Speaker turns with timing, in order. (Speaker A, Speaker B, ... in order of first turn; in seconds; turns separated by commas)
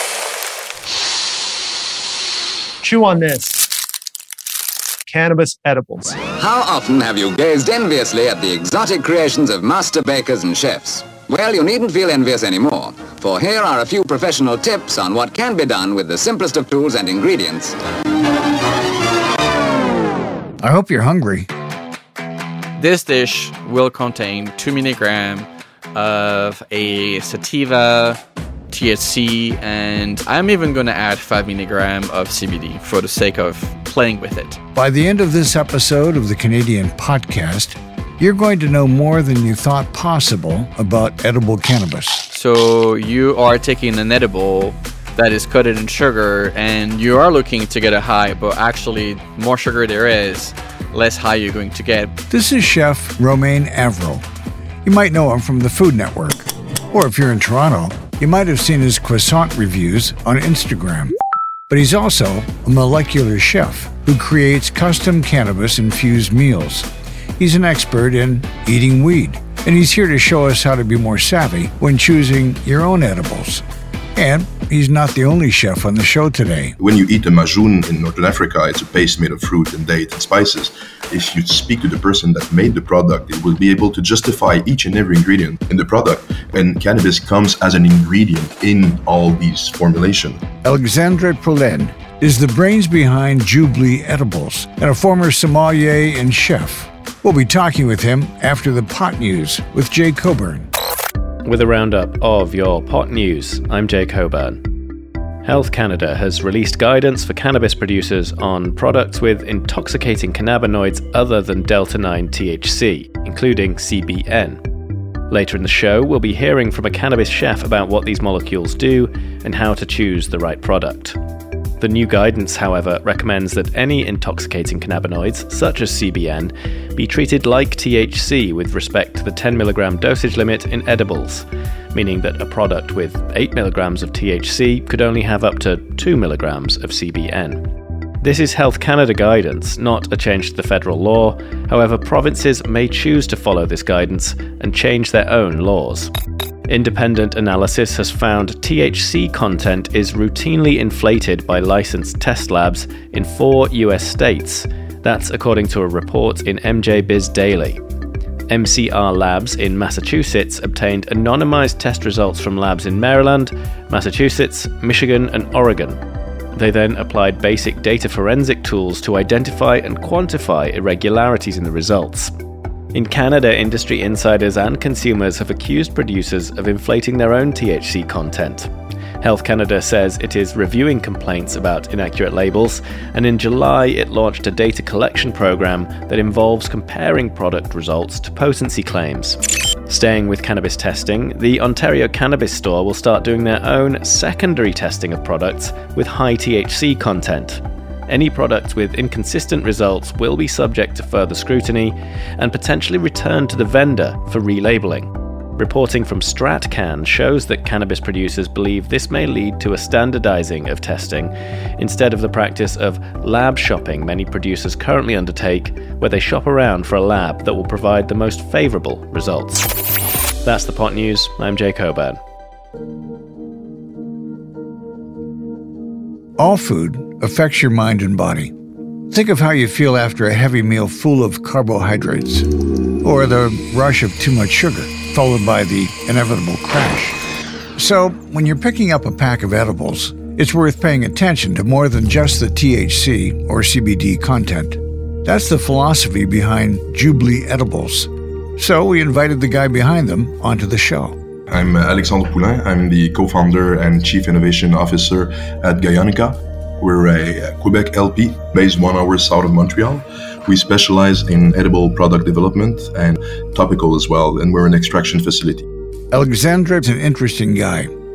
Speaker A: 2.8-3.7, Speaker A: 5.1-6.2, Speaker B: 6.3-17.8, Speaker C: 20.6-21.5, Speaker D: 22.8-28.2, Speaker D: 28.7-34.6, Speaker C: 34.7-42.2, Speaker D: 42.3-52.1, Speaker C: 52.3-54.2, Speaker C: 54.8-61.1, Speaker C: 61.7-73.6, Speaker C: 74.2-76.8, Speaker E: 76.8-90.4, Speaker C: 90.6-100.7, Speaker F: 101.4-104.6, Speaker F: 105.4-114.6, Speaker F: 115.3-121.2, Speaker F: 121.8-137.6, Speaker F: 138.2-146.1, Speaker F: 146.7-157.8, Speaker F: 158.5-166.0, Speaker F: 166.5-172.3, Speaker F: 172.9-219.7, Speaker F: 220.4-222.2, Speaker C: 226.4-228.5, Speaker C: 229.1-232.5, Speaker C: 233.0-237.2, Speaker C: 237.8-251.2, Speaker E: 251.5-265.7, Speaker C: 266.1-267.9